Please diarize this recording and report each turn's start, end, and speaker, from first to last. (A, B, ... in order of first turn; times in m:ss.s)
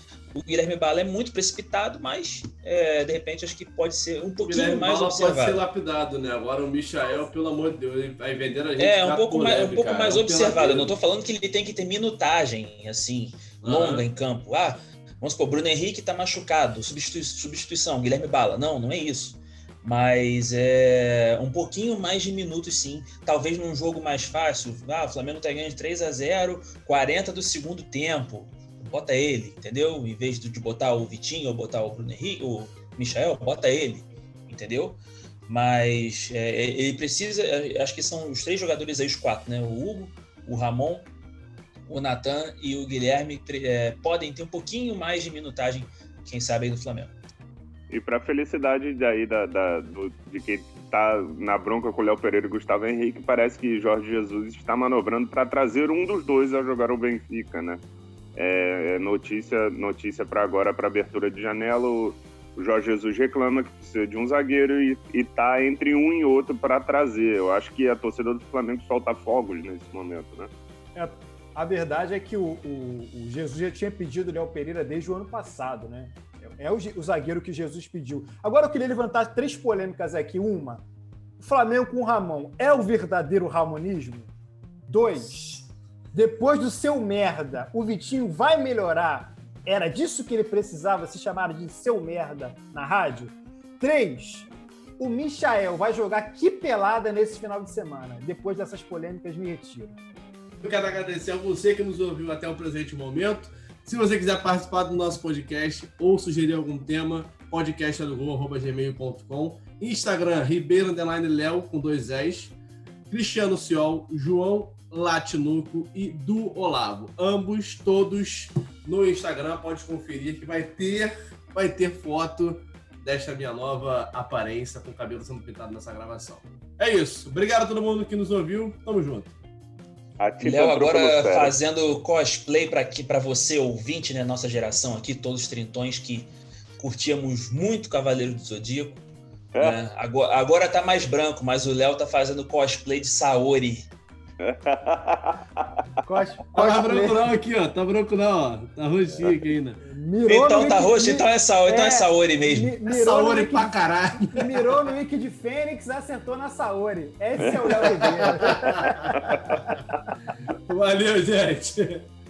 0:00.3-0:05.6 A
0:04.4-0:10.9 B
0:08.8-0:41.1 A
0:13.6-0:14.0 B
0:41.9-0:47.1 A
0:47.9-0:57.8 C
0:58.4-1:10.5 C
1:10.9-1:20.8 D
1:21.4-1:24.3 D
1:24.9-1:40.0 D
1:40.6-1:52.6 B
1:53.1-2:09.3 B
2:10.2-2:11.5 C
2:10.4-2:19.0 A
2:19.6-2:23.8 A
2:24.4-2:25.8 C
2:26.0-2:27.3 D
2:26.5-2:29.8 B
2:29.8-2:39.6 D
2:30.2-2:32.8 A
2:32.9-2:34.9 B
2:37.8-2:39.5 B
2:39.1-2:39.6 C
2:40.7-2:42.0 B